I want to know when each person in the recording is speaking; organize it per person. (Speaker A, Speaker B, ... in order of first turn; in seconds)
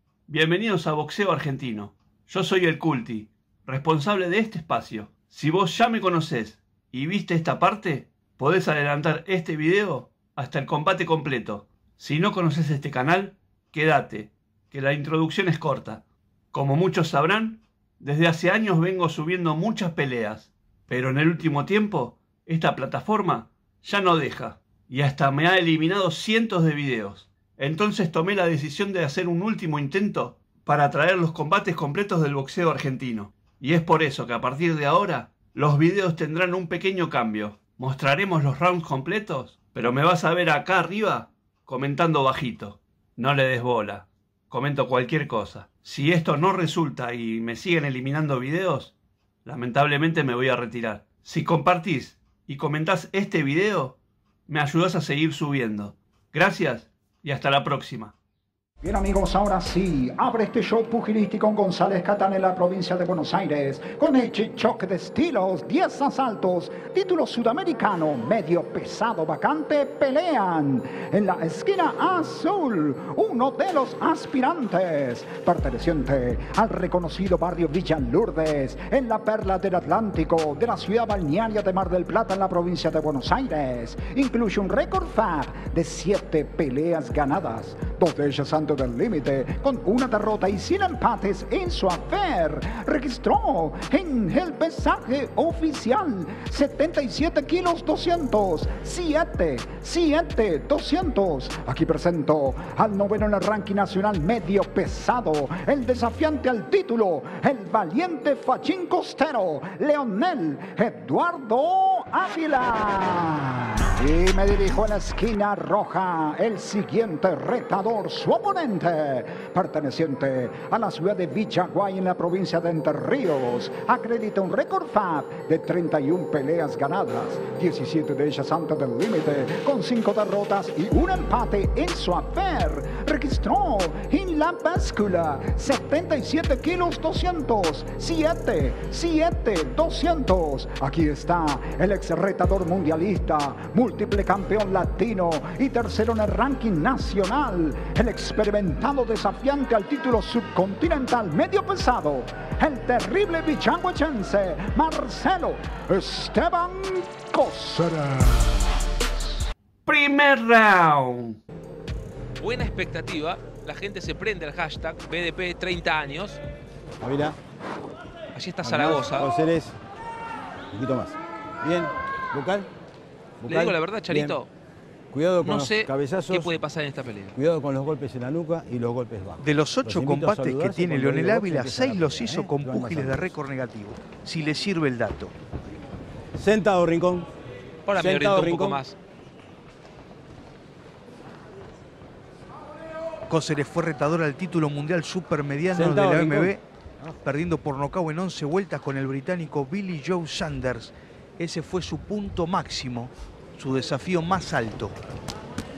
Speaker A: 0.3-48.9, 49.4-58.1, 159.8-161.4
Speaker B: 58.8-158.8
Speaker C: 162.4-166.4, 168.3-169.3, 173.4-174.5, 175.4-177.3, 187.8-189.0
Speaker D: 167.0-167.4, 168.6-169.8, 170.7-172.7, 173.4-174.4, 175.1-176.5, 177.3-183.3, 186.4-187.3, 187.9-188.8, 195.7-196.5
Speaker E: 179.4-185.3, 193.3-196.6, 197.2-205.0